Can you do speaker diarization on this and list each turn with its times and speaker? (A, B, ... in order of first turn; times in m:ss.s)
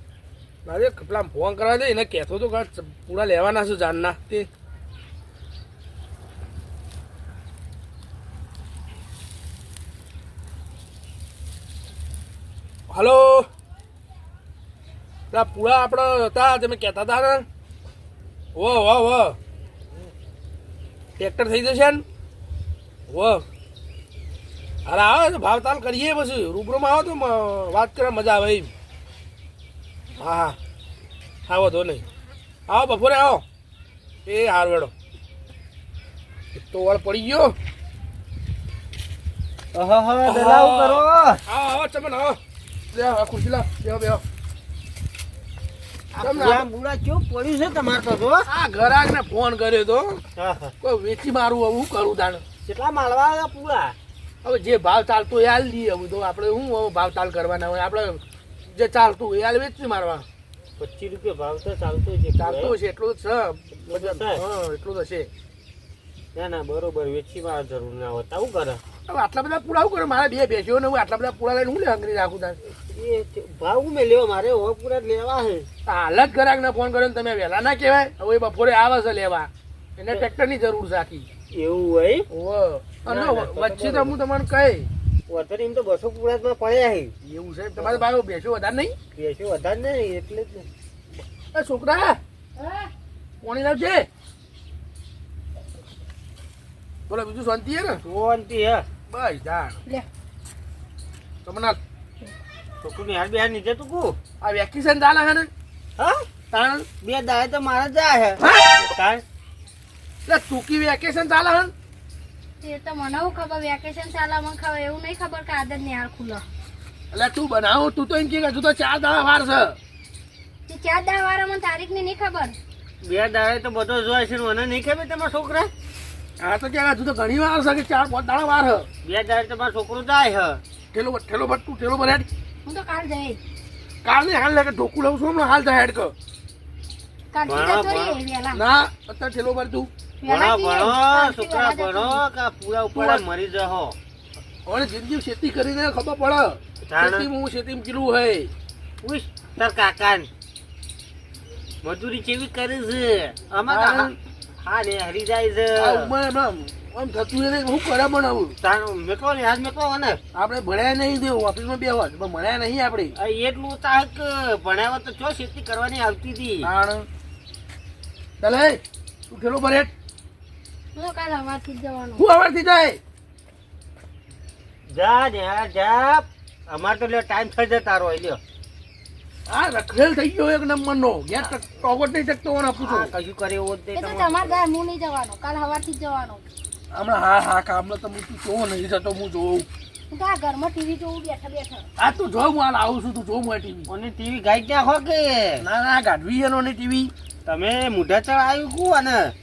0:00.6-0:04.5 A
0:12.9-0:13.5 A
0:15.3-0:17.4 A
0:18.5-0:19.4 A
0:21.2-0:22.0 A
0:23.1-0:23.4 A
0:24.8-0:28.7 A
0:30.2-0:30.6 A
0:31.5-0:32.0 A
0:32.7-0:33.4 A
0:34.2-0:34.9 A
0:36.6-0:37.5 A
0:39.7-0:41.4 B
0:40.2-0:42.4 A
0:42.9-0:44.2 A
0:46.1-0:48.4 B
0:46.2-0:46.6 A
0:48.5-0:50.2 A
0:50.3-0:50.7 B
0:50.8-0:52.4 A
0:52.6-0:53.9 B
0:54.4-1:00.2 A
1:00.8-1:02.7 B
1:02.4-1:05.3 A
1:03.9-1:04.4 B
1:06.3-1:08.8 B
1:09.0-1:12.6 A
1:12.6-1:15.7 B
1:15.8-1:21.3 A
1:21.5-1:22.2 B
1:22.3-1:24.9 A
1:23.0-1:24.1 B
1:25.3-1:27.1 B
1:27.2-1:28.9 A
1:27.8-1:28.0 B
1:29.2-1:30.7 B
1:31.5-1:32.2 A
1:32.6-1:32.9 C
1:33.4-1:34.1 A
1:37.1-1:38.0 A
1:38.0-1:38.8 B
1:39.1-1:39.8 A
1:41.4-1:41.8 A
1:42.8-1:44.2 B
1:44.4-1:45.5 A
1:46.0-1:46.3 B
1:46.5-1:46.9 A
1:47.0-1:48.4 B
1:48.4-1:48.9 A
1:48.9-1:49.2 B
1:50.3-1:51.7 A
1:52.6-1:56.4 C
1:57.1-1:59.8 A
2:00.7-2:02.5 C
2:03.0-2:05.7 B
2:06.4-2:08.9 A
2:09.0-2:10.6 B
2:10.9-2:12.2 A
2:12.6-2:13.4 C
2:14.0-2:16.1 A
2:17.3-2:18.6 C
2:17.5-2:18.2 B
2:18.5-2:19.9 A
2:20.2-2:22.2 C
2:20.2-2:23.9 B
2:22.9-2:23.2 A
2:24.6-2:28.5 A
2:26.9-2:27.3 B
2:29.0-2:30.3 B
2:31.8-2:34.1 B
2:33.7-2:34.1 A
2:34.6-2:36.1 B
2:35.8-2:38.5 A
2:38.6-2:40.2 B
2:40.3-2:43.1 A
2:43.2-2:46.7 B
2:46.6-2:47.0 A
2:48.4-2:49.9 A
2:50.9-2:52.3 C
2:52.2-2:53.0 A
2:54.9-2:58.4 B
2:59.5-3:03.1 A
3:02.8-3:04.6 B
3:03.9-3:06.4 C
3:06.9-3:09.7 A
3:10.1-3:11.8 C
3:12.0-3:13.9 A
3:13.9-3:15.6 B
3:15.6-3:17.1 A
3:17.4-3:19.3 B